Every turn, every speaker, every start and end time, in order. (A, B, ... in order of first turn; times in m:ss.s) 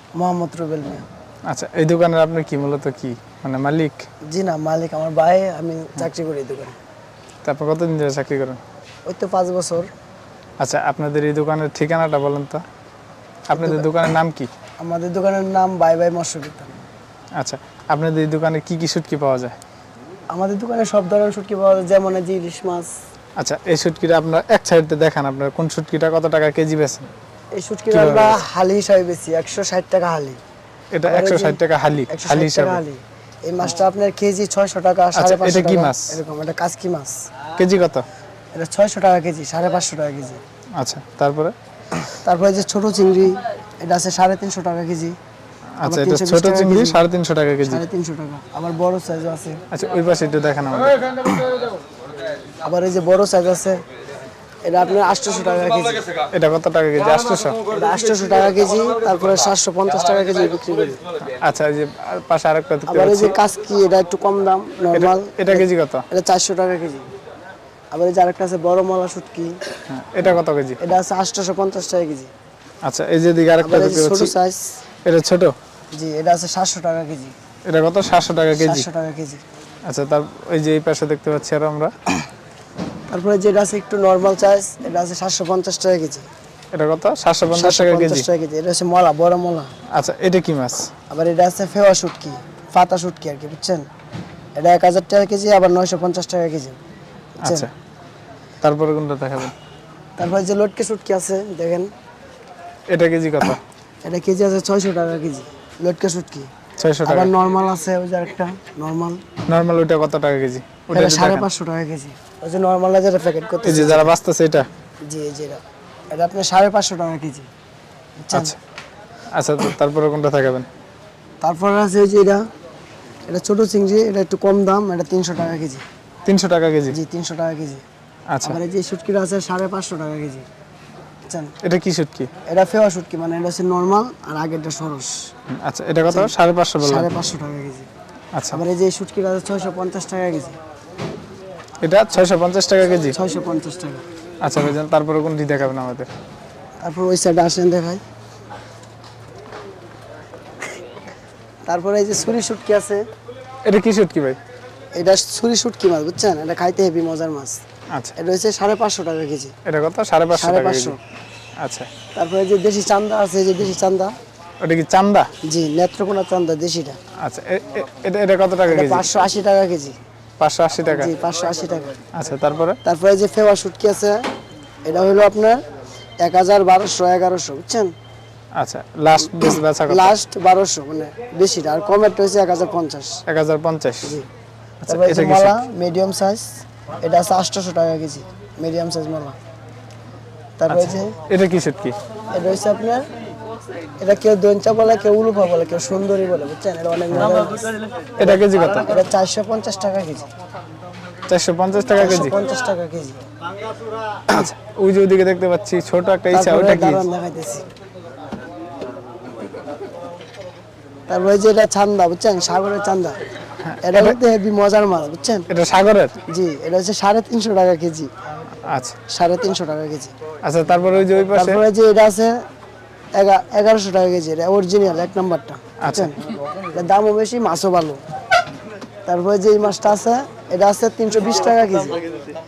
0:00.2-0:01.0 A
0:01.5-0:04.0 B
0:04.3-0:06.7 A
0:07.4-0:08.6 B
0:09.1-0:09.9 A
0:10.6-0:12.6 B
0:13.5-0:14.5 B
0:13.5-0:13.9 A
0:14.8-0:16.7 A
0:17.4-0:19.6 B
0:20.3-0:22.9 A
0:23.4-0:27.1 B
0:27.5-0:30.4 A
0:27.9-0:28.4 B
0:30.9-0:32.8 B
0:31.0-0:37.2 A
0:35.1-0:36.2 B
0:37.6-0:38.0 B
0:38.5-0:40.4 A
0:40.8-0:41.5 B
0:42.1-0:45.2 A
0:45.8-0:47.8 B
0:45.8-0:47.0 A
0:47.6-0:49.6 A
0:49.7-0:51.0 B
0:52.6-0:53.8 A
0:54.6-0:56.0 A
0:56.3-0:57.6 B
0:57.7-1:01.1 A
1:01.2-1:03.3 B
1:02.9-1:07.0 A
1:04.9-1:06.0 B
1:07.9-1:09.6 A
1:09.9-1:10.8 B
1:10.8-1:12.3 A
1:12.8-1:14.3 B
1:13.6-1:14.6 A
1:15.0-1:15.5 B
1:15.9-1:17.3 A
1:17.7-1:18.8 B
1:18.5-1:19.4 A
1:19.8-1:21.9 B
1:23.1-1:26.3 A
1:26.7-1:28.2 B
1:27.5-1:29.7 A
1:29.9-1:30.9 B
1:31.1-1:33.8 A
1:34.6-1:36.8 A
1:37.4-1:37.7 A
1:37.4-1:37.7 B
1:38.6-1:39.5 B
1:40.2-1:41.9 A
1:42.9-1:43.6 B
1:44.0-1:46.5 A
1:46.8-1:47.3 B
1:47.0-1:49.2 A
1:49.5-1:51.5 B
1:50.9-1:54.1 A
1:53.6-1:54.7 B
1:55.0-1:57.4 A
1:58.2-1:58.6 A
1:59.3-2:00.7 B
2:01.4-2:02.4 A
2:03.3-2:05.8 A
2:06.2-2:07.0 B
2:06.9-2:07.8 A
2:08.3-2:08.6 B
2:08.4-2:10.4 A
2:11.3-2:11.5 A
2:11.6-2:12.3 B
2:12.5-2:15.3 A
2:15.6-2:17.1 B
2:16.1-2:17.9 A
2:18.3-2:18.6 B
2:18.5-2:20.6 A
2:21.8-2:23.2 B
2:23.1-2:24.0 A
2:24.4-2:26.1 B
2:26.8-2:28.0 A
2:31.7-2:33.0 A
2:33.6-2:34.4 B
2:35.0-2:37.6 A
2:38.2-2:39.5 A
2:39.6-2:40.9 B
2:40.3-2:41.0 A
2:41.6-2:41.9 B
2:42.1-2:44.1 A
2:44.6-2:45.3 B
2:45.4-2:47.0 A
2:47.2-2:49.0 B
2:48.7-2:50.0 A
2:50.4-2:51.1 B
2:50.8-2:52.0 A
2:52.1-2:52.8 B
2:52.8-2:54.2 A
2:54.8-2:55.6 A
2:56.2-2:57.9 A
2:58.6-3:00.1 B
2:59.2-3:03.2 A
3:03.3-3:04.1 B
3:04.8-3:05.6 B
3:04.9-3:09.4 A
3:10.6-3:11.1 A
3:10.7-3:12.0 B
3:12.3-3:13.1 A
3:14.0-3:20.3 A
3:17.1-3:17.5 B
3:18.2-3:18.9 B
3:21.3-3:22.4 B
3:21.9-3:23.2 A
3:24.3-3:27.0 B
3:26.3-3:27.6 A
3:31.1-3:33.2 A
3:33.6-3:34.2 B
3:33.8-3:35.5 A
3:35.5-3:36.2 B
3:36.3-3:38.1 A
3:38.6-3:39.0 B
3:39.1-3:40.1 A
3:40.4-3:41.6 B
3:41.3-3:42.3 A
3:43.2-3:48.0 A
3:45.8-3:46.1 B
3:49.0-3:52.0 A